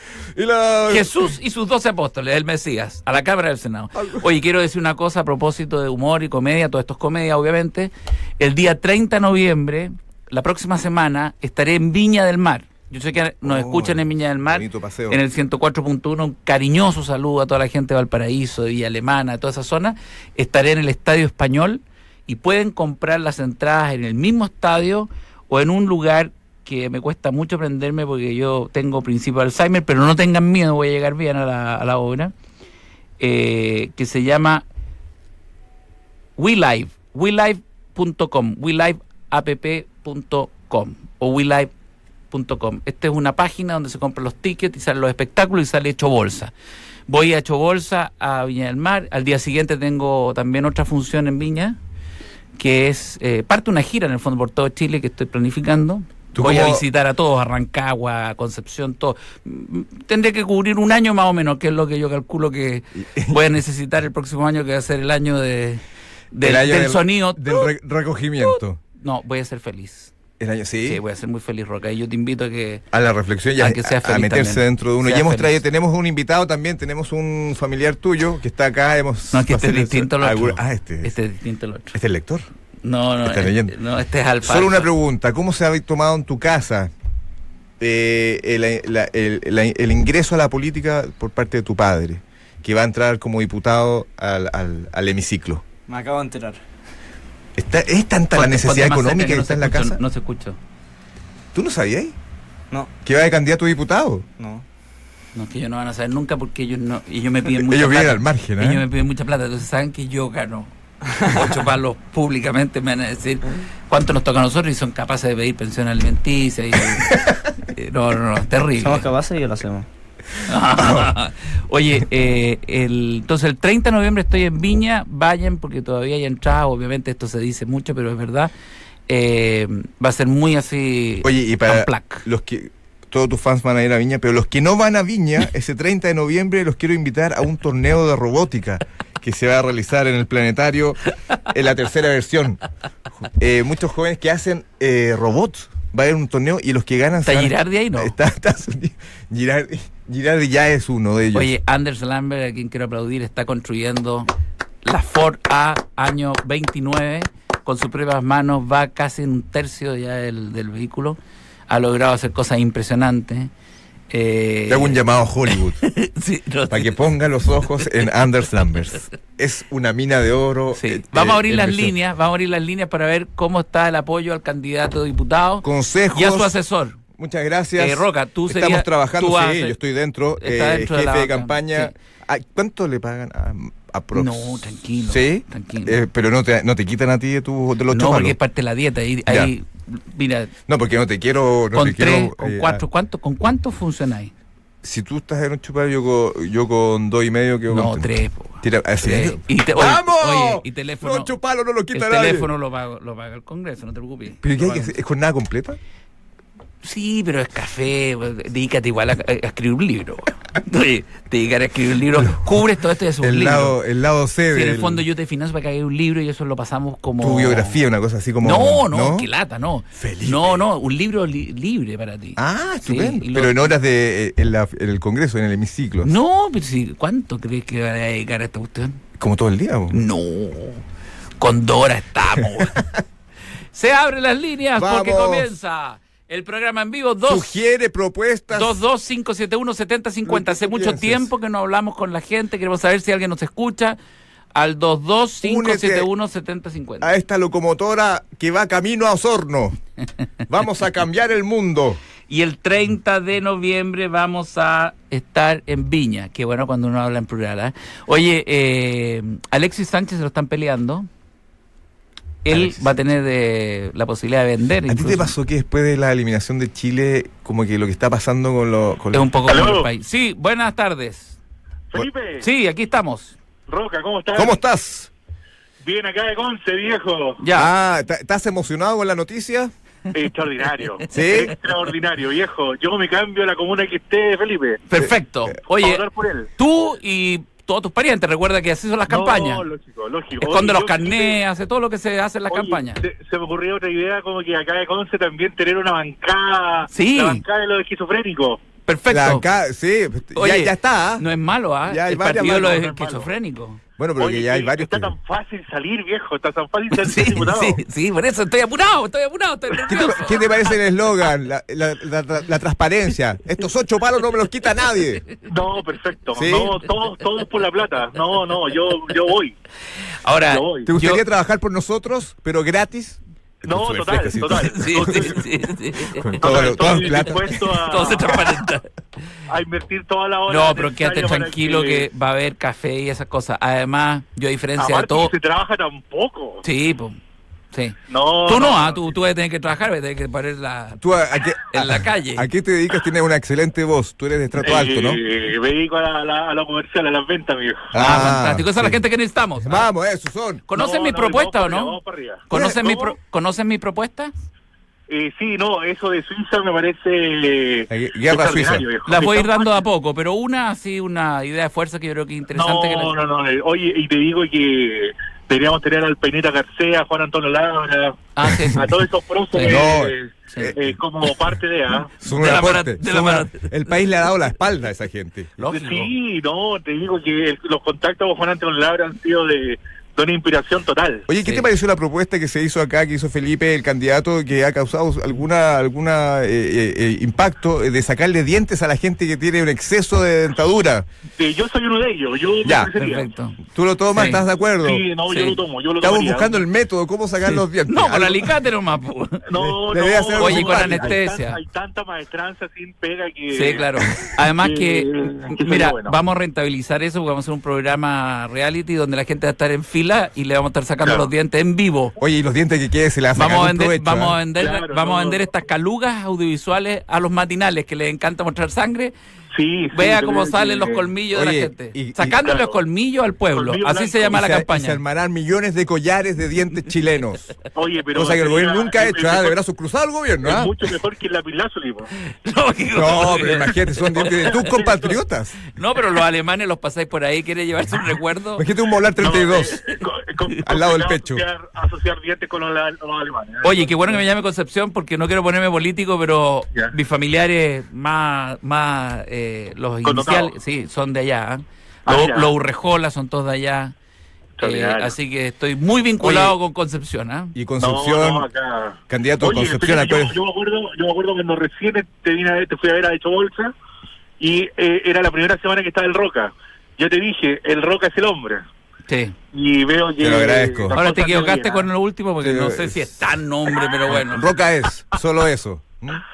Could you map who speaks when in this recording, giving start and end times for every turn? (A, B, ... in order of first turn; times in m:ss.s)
0:00.3-0:01.1 A
0:00.9-0:32.3 B
0:03.9-0:04.2 A
0:13.4-0:15.2 A
0:33.2-0:34.6 B
0:36.4-0:41.7 B
0:42.3-0:46.5 B
0:47.1-0:51.8 B
0:52.6-1:07.7 B
0:56.3-0:56.8 A
1:03.0-1:03.4 A
1:06.4-1:08.8 A
1:08.4-1:10.1 B
1:10.4-1:11.0 A
1:10.8-1:12.8 B
1:12.9-1:21.1 A
1:13.6-1:15.6 B
1:19.3-1:22.0 B
1:21.9-1:22.4 A
1:22.8-1:24.9 B
1:23.2-1:23.7 A
1:24.4-1:26.9 A
1:27.8-1:35.6 A
1:35.9-1:36.6 C
1:37.6-1:40.0 A
1:38.3-1:40.6 B
1:41.5-1:42.2 A
1:43.0-1:44.2 A
1:44.4-1:44.6 C
1:45.3-1:50.7 B
1:47.5-1:48.8 A
1:51.1-1:51.6 C
1:51.2-1:59.1 B
1:57.0-1:57.3 A
1:58.8-1:59.9 C
2:00.4-2:08.5 B
2:00.7-2:01.1 A
2:09.1-2:12.2 B
2:11.2-2:22.6 A
2:23.2-2:31.5 A
2:27.2-2:28.1 B
2:31.3-2:34.3 B
2:34.8-2:41.2 B
2:41.7-2:43.5 B
2:44.1-2:47.0 B
2:44.7-2:45.8 A
2:46.7-2:51.9 A
2:50.7-2:57.0 B
2:55.6-2:56.6 A
2:57.1-3:08.4 A
2:57.8-2:59.8 B
3:00.4-3:01.9 B
3:04.1-3:06.0 B
3:07.9-3:10.5 B
3:09.3-3:09.5 A
3:10.7-3:12.8 A
3:11.7-3:14.3 B
3:14.8-3:18.1 A
3:17.7-3:21.3 B
3:18.6-3:22.5 A
3:21.9-3:24.9 B
3:24.4-3:25.8 A
3:26.8-3:33.8 B
3:32.2-3:32.6 A
3:33.2-3:35.0 A
3:34.5-3:37.8 B
3:37.2-3:39.3 A
3:38.4-3:43.7 B
3:39.9-3:40.6 A
3:42.4-3:46.1 A
3:46.0-3:49.0 B
3:49.2-3:50.0 A
3:49.9-3:50.8 B
3:51.4-3:52.8 B
3:52.6-3:52.8 A
3:53.7-3:57.6 B
3:54.8-3:55.5 A
3:57.3-3:58.8 A
3:58.5-4:04.0 B
4:00.2-4:01.3 A
4:04.5-4:07.1 B
4:05.4-4:06.1 A
4:07.0-4:09.8 A
4:10.5-4:12.0 A
4:12.3-4:21.1 B
4:22.4-4:25.3 B
4:22.5-4:22.9 A
4:24.9-4:29.3 A
4:29.1-4:31.4 B
4:29.5-4:29.9 D
4:31.9-4:32.5 D
4:32.4-4:33.4 B
4:33.7-4:34.6 D
4:34.3-4:35.1 A
4:35.8-4:37.4 D
4:37.4-4:37.7 B
4:37.5-4:39.7 A
4:40.1-4:44.8 D
4:41.1-4:41.6 A
4:44.9-4:46.0 B
4:45.7-4:46.5 D
4:46.6-4:49.6 B
4:49.1-4:51.4 D
4:50.4-4:53.0 B
4:52.5-4:58.6 D
4:56.9-4:57.4 B
4:58.9-4:59.4 B
4:59.1-5:01.2 A
5:00.3-5:03.8 B
5:01.8-5:03.0 A
5:02.5-5:03.3 D
5:04.0-5:05.1 A
5:04.2-5:07.8 D
5:07.0-5:10.5 B
5:09.8-5:15.2 A
5:15.5-5:19.6 D
5:16.4-5:16.8 A
5:20.2-5:21.2 B
5:20.5-5:20.9 D
5:20.8-5:25.4 A
5:23.6-5:25.4 D
5:24.5-5:28.9 B
5:26.1-5:28.2 A
5:26.4-5:28.6 D
5:29.5-5:32.1 D
5:30.5-5:35.3 B
5:34.8-5:36.6 D
5:36.6-5:37.2 B
5:37.7-5:41.0 B
5:38.1-5:39.1 D
5:41.0-5:45.2 A
5:41.6-5:42.5 B
5:44.6-5:47.9 D
5:47.9-5:49.0 A
5:47.9-5:49.9 B
5:49.6-5:50.6 A
5:50.7-5:52.0 B
5:50.7-5:53.1 D
5:52.5-5:54.3 B
5:55.1-5:59.7 D
5:57.9-5:58.9 A
5:59.0-6:03.1 B
6:02.5-6:12.1 D
6:08.3-6:08.9 B
6:09.5-6:09.9 B
6:09.6-6:11.3 A
6:10.5-6:10.7 B
6:12.2-6:15.5 A
6:12.2-6:13.7 B
6:15.6-6:16.1 B
6:15.7-6:21.3 D
6:21.3-6:31.0 A
6:31.4-6:33.3 D
6:32.6-6:32.9 A
6:32.9-6:33.6 B
6:33.7-6:35.0 A
6:34.1-6:34.4 B
6:34.8-6:36.6 D
6:35.3-6:35.6 B
6:36.0-6:38.5 A
6:37.5-6:39.4 B
6:39.5-6:46.2 D
6:39.5-6:41.2 A
6:40.4-6:41.6 B
6:43.5-6:52.1 B
6:52.2-6:54.4 A
6:53.4-6:59.1 B
6:54.6-6:55.5 D
6:59.5-7:01.1 D
6:59.9-7:05.0 B
7:01.3-7:02.4 A
7:02.4-7:02.8 D
7:03.5-7:04.4 D
7:04.3-7:07.6 A
7:07.7-7:09.6 D
7:08.1-7:10.7 A
7:10.4-7:12.1 D
7:12.3-7:14.6 B
7:12.9-7:15.6 A
7:14.2-7:15.2 D
7:15.7-7:18.6 B
7:18.6-7:19.8 A
7:19.2-7:24.2 D
7:20.6-7:21.4 A
7:23.6-7:33.9 B
7:30.0-7:30.5 D
7:32.1-7:32.5 D
7:34.6-7:35.1 D
7:34.6-7:37.5 B
7:36.2-7:36.5 A
7:37.5-7:38.5 A
7:37.8-7:43.7 D
7:39.1-7:40.4 A
7:44.4-7:48.6 D
7:49.1-7:49.4 B
7:49.5-7:51.9 D
7:50.2-7:51.0 A
7:50.9-7:54.5 B
7:52.4-7:53.1 A
7:54.1-7:56.2 A